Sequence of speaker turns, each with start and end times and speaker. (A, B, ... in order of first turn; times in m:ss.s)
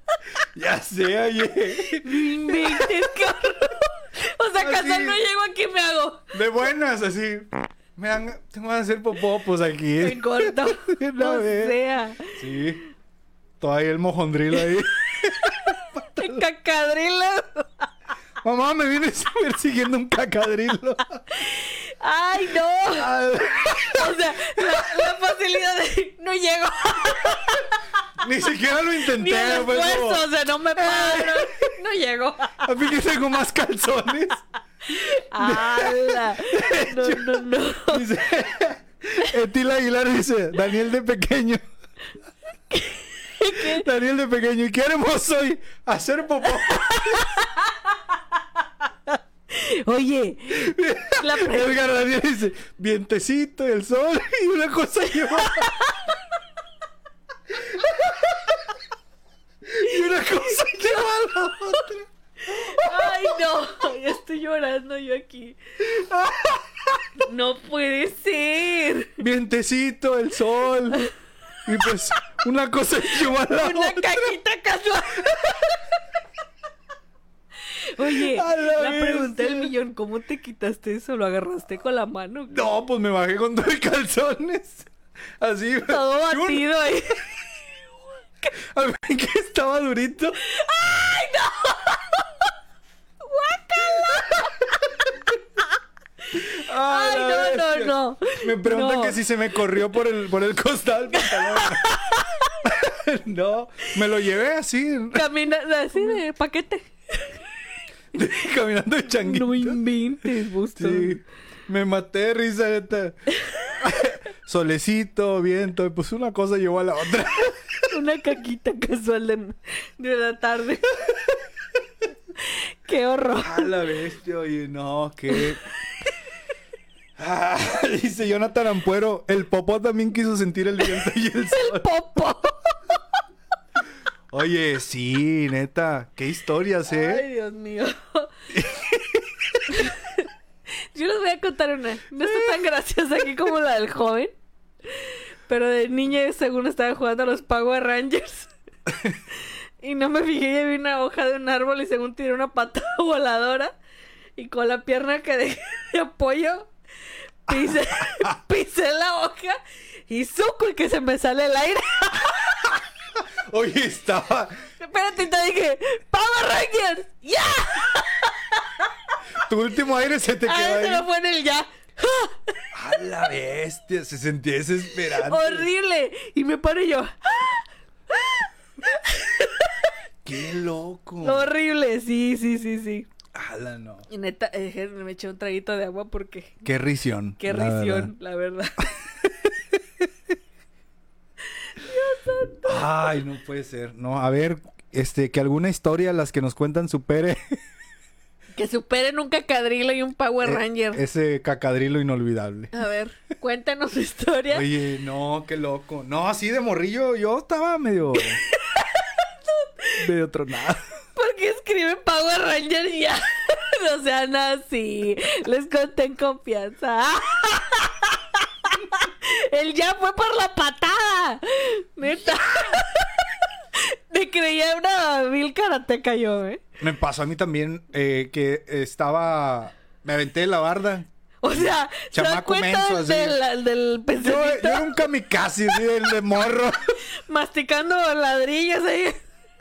0:00.5-0:03.0 A
0:01.9-0:06.3 B
0:04.6-0:05.2 A
0:06.3-0:11.8 A
0:10.0-0:12.4 B
0:12.3-0:12.8 A
0:13.6-0:16.4 A
0:16.1-0:17.8 B
0:18.4-0:21.2 A
0:21.3-0:23.1 B
0:22.9-0:24.7 A
0:23.7-0:27.8 B
0:28.2-0:30.2 A
0:29.1-0:32.6 B
0:30.8-0:31.7 A
0:32.6-0:34.4 A
0:34.9-0:38.0 B
0:35.4-0:41.6 A
0:42.7-0:43.8 B
0:43.5-0:47.3 A
0:46.6-0:47.7 B
0:49.1-0:51.7 B
0:50.5-0:55.7 A
0:55.4-0:55.9 B
0:57.7-0:58.6 A
0:59.7-1:03.3 A
0:59.8-1:01.1 B
1:02.4-1:05.6 B
1:05.9-1:07.0 A
1:07.2-1:09.2 B
1:09.2-1:11.0 A
1:11.6-1:14.2 A
1:13.1-1:15.9 B
1:17.9-1:22.6 B
1:18.0-1:19.7 A
1:22.5-1:24.9 A
1:25.4-1:26.7 A
1:25.8-1:27.4 B
1:28.6-1:30.4 A
1:30.5-1:32.2 B
1:33.2-1:34.9 B
1:34.0-1:34.5 A
1:36.3-1:41.9 A
1:36.4-1:39.2 B
1:41.1-1:42.6 B
1:42.6-1:45.2 A
1:45.1-1:47.4 B
1:48.1-1:49.8 A
1:49.1-1:51.2 B
1:50.8-1:53.2 A
1:53.8-1:57.9 A
1:57.9-2:01.0 B
2:02.4-2:03.7 B
2:03.4-2:05.6 A
2:07.2-2:11.8 A
2:11.5-2:12.7 B
2:14.3-2:17.2 A
2:16.9-2:18.3 B
2:18.5-2:19.8 A
2:19.7-2:20.2 B
2:20.9-2:24.3 B
2:24.9-2:28.5 B
2:29.4-2:33.8 B
2:34.4-2:36.7 B
2:37.5-2:42.7 B
2:37.5-2:38.3 A
2:43.2-2:44.6 A
2:44.8-2:48.9 B
2:49.4-2:51.1 A
2:50.4-2:52.5 B
2:52.7-2:55.7 A
2:55.1-2:59.9 B
3:00.2-3:01.5 A
3:01.2-3:03.1 B
3:03.3-3:04.0 A
3:04.1-3:06.6 B
3:06.6-3:08.1 A
3:07.4-3:08.9 B
3:09.2-3:09.8 A
3:11.5-3:12.8 B
3:12.6-3:17.6 A
3:18.5-3:21.0 B
3:20.4-3:22.7 A
3:22.7-3:24.7 B
3:24.5-3:28.4 A
3:28.2-3:30.0 B
3:30.0-3:30.8 A
3:31.2-3:46.6 B
3:46.8-3:53.4 A
3:51.4-3:55.0 B
3:54.2-3:56.8 A
3:57.3-3:59.2 B